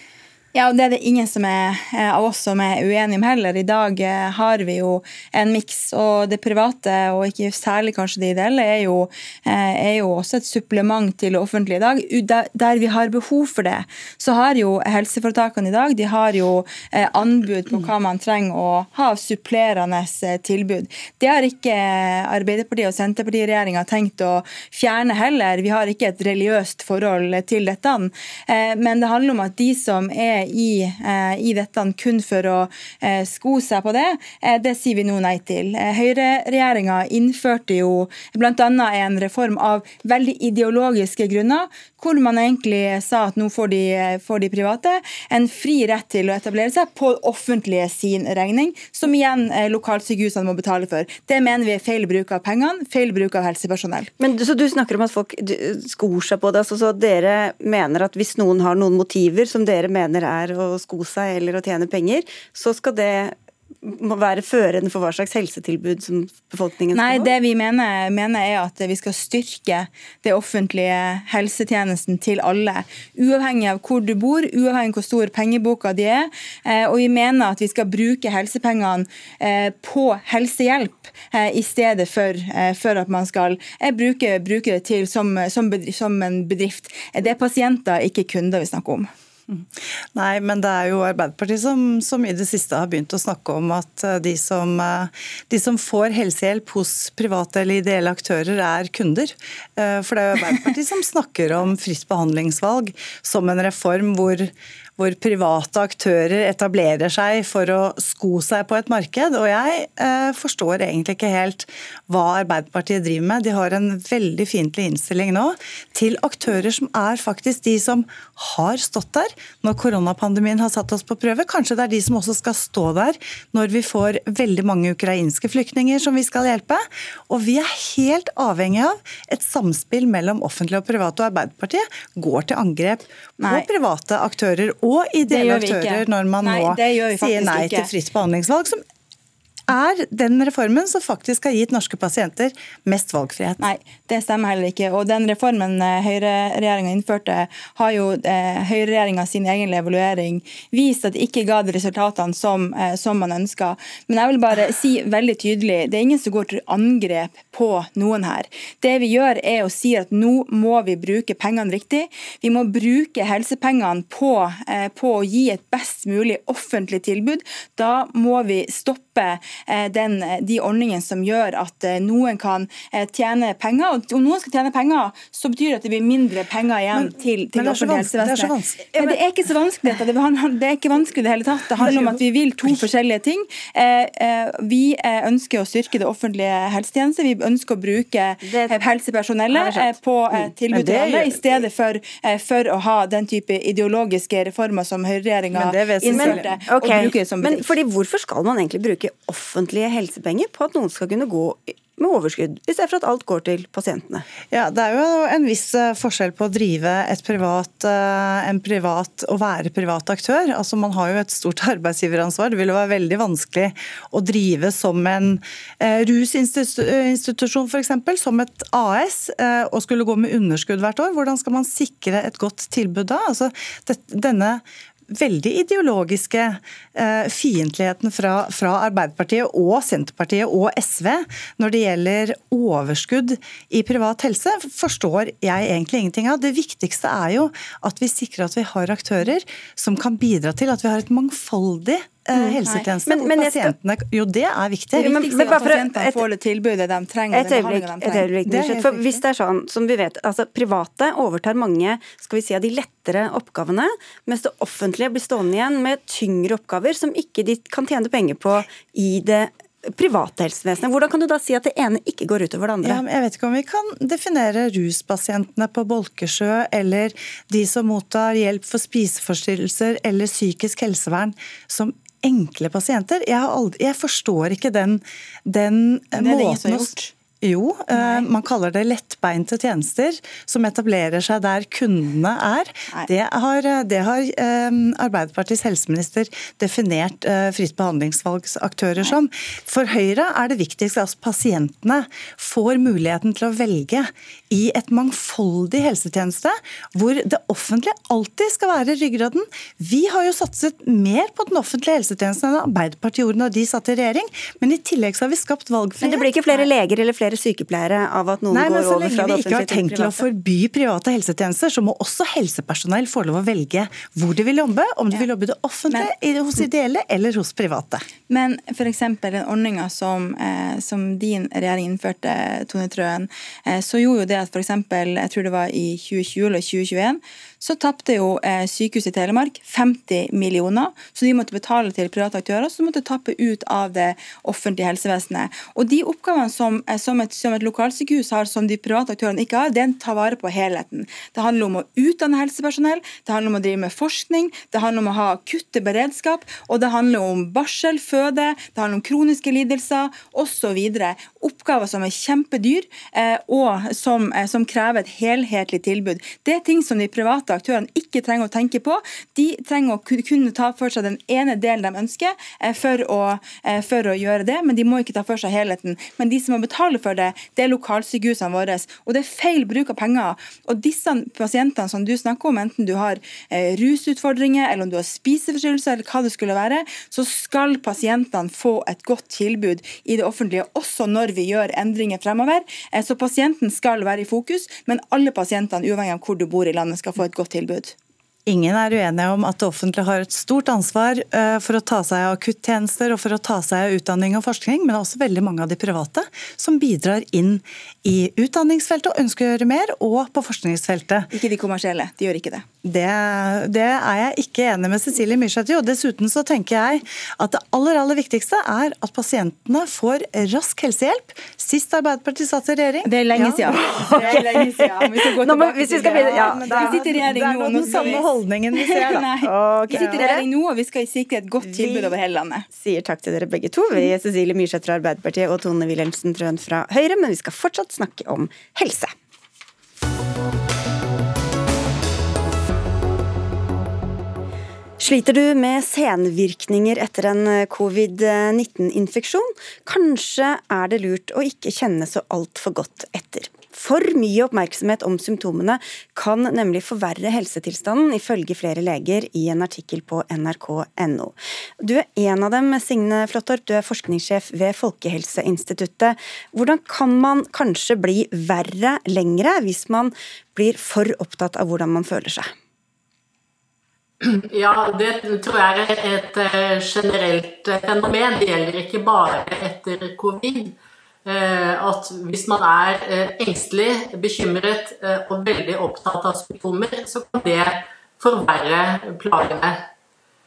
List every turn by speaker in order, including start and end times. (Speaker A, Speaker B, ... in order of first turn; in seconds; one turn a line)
Speaker A: 0.5-54.1
Speaker B: 54.2-67.3
Speaker A: 66.9-89.1
Speaker C: 89.5-138.8
Speaker A: 133.4-133.7
Speaker A: 135.2-137.9
Speaker C: 139.7-143.6
Speaker A: 143.6-197.7
Speaker C: 176.9-178.9
Speaker C: 181.8-182.1
Speaker B: 188.4-188.8
Speaker B: 189.5-191.5
Speaker C: 190.7-191.2
Speaker C: 195.5-196.6
Speaker B: 195.6-204.2
Speaker C: 204.5-245.8
Speaker B: 242.3-243.7
Speaker A: 244.9-248.3
Speaker B: 245.0-246.2
Speaker B: 247.3-263.0
Speaker C: 248.5-249.2
Speaker C: 262.8-306.2
Speaker A: 276.1-277.1
Speaker A: 277.9-278.3
Speaker B: 306.0-310.2
Speaker A: 306.1-306.7
Speaker C: 308.5-318.1
Speaker A: 318.3-388.0
Speaker C: 388.5-401.3
Speaker A: 401.3-402.7
Speaker C: 402.8-414.6
Speaker A: 413.1-422.7
Speaker B: 413.9-417.2
Speaker C: 415.8-419.3
Speaker B: 417.7-418.2
Speaker B: 419.0-420.5
Speaker B: 421.6-422.1
Speaker B: 422.7-429.1
Speaker B: 435.0-462.5
Speaker D: 464.3-479.9